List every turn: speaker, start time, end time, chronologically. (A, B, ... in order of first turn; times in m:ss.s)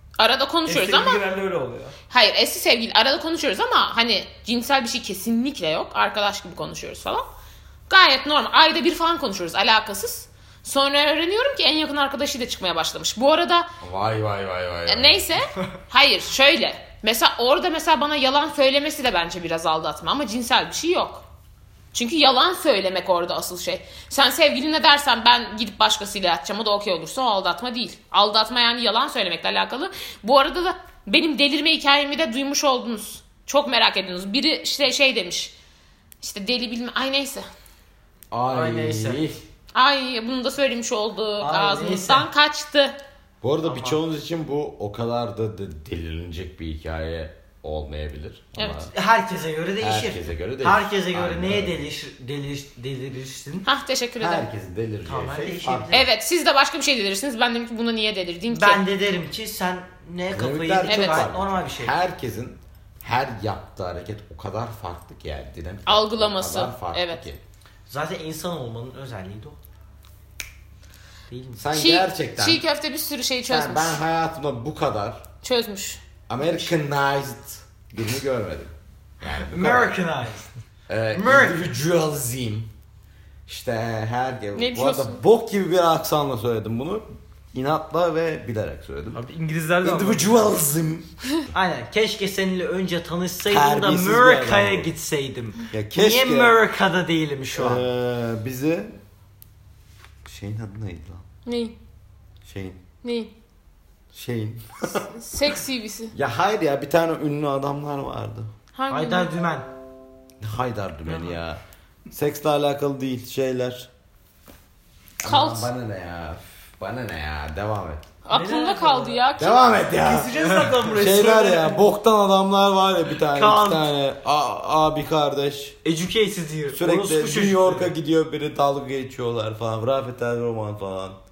0:00.2-0:01.2 A
0:00.6-0:02.0 B
0:02.1-0:07.3 A
0:07.9-0:13.7 A
0:13.8-0:15.3 C
0:14.8-0:21.2 A
0:21.9-0:35.5 A
0:36.2-0:37.5 A
0:38.3-0:39.4 C
0:38.5-0:39.2 D
0:39.7-0:43.0 A
0:41.4-0:42.3 D
0:43.4-0:48.9 C
0:43.6-0:44.0 D
0:48.6-0:48.8 A
0:48.9-0:53.7 D
0:49.8-0:51.8 C
0:53.6-0:54.4 A
0:54.2-0:56.0 C
0:55.0-0:56.1 D
0:55.9-0:58.8 A
0:58.5-1:02.0 D
1:00.3-1:07.4 C
1:00.8-1:01.3 A
1:05.9-1:07.2 A
1:07.9-1:09.6 D
1:11.3-1:11.6 D
1:11.6-1:12.6 C
1:11.7-1:14.0 A
1:13.5-1:15.2 C
1:15.4-1:16.0 A
1:16.3-1:20.0 C
1:19.5-1:20.5 D
1:20.9-1:22.7 C
1:21.1-1:21.6 D
1:23.5-1:29.2 C
1:24.5-1:25.2 A
1:29.1-1:30.5 B
1:29.8-1:31.1 C
1:31.5-1:37.8 D
1:33.4-1:34.9 C
1:35.7-1:36.6 C
1:37.5-1:39.0 C
1:40.2-1:41.2 C
1:41.4-1:41.7 A
1:42.4-1:42.8 C
1:43.0-1:43.3 A
1:44.1-1:45.1 C
1:45.1-1:46.1 A
1:46.1-1:48.5 C
1:48.7-1:49.3 A
1:48.9-1:49.7 D
1:50.4-1:53.9 C
1:55.2-1:58.1 C
1:55.2-1:55.7 A
1:58.2-1:59.6 A
1:58.3-1:59.2 B
1:59.4-2:00.3 C
2:00.0-2:01.8 B
2:00.5-2:00.8 D
2:00.9-2:05.8 C
2:03.3-2:03.9 D
2:05.8-2:07.9 D
2:06.7-2:11.2 C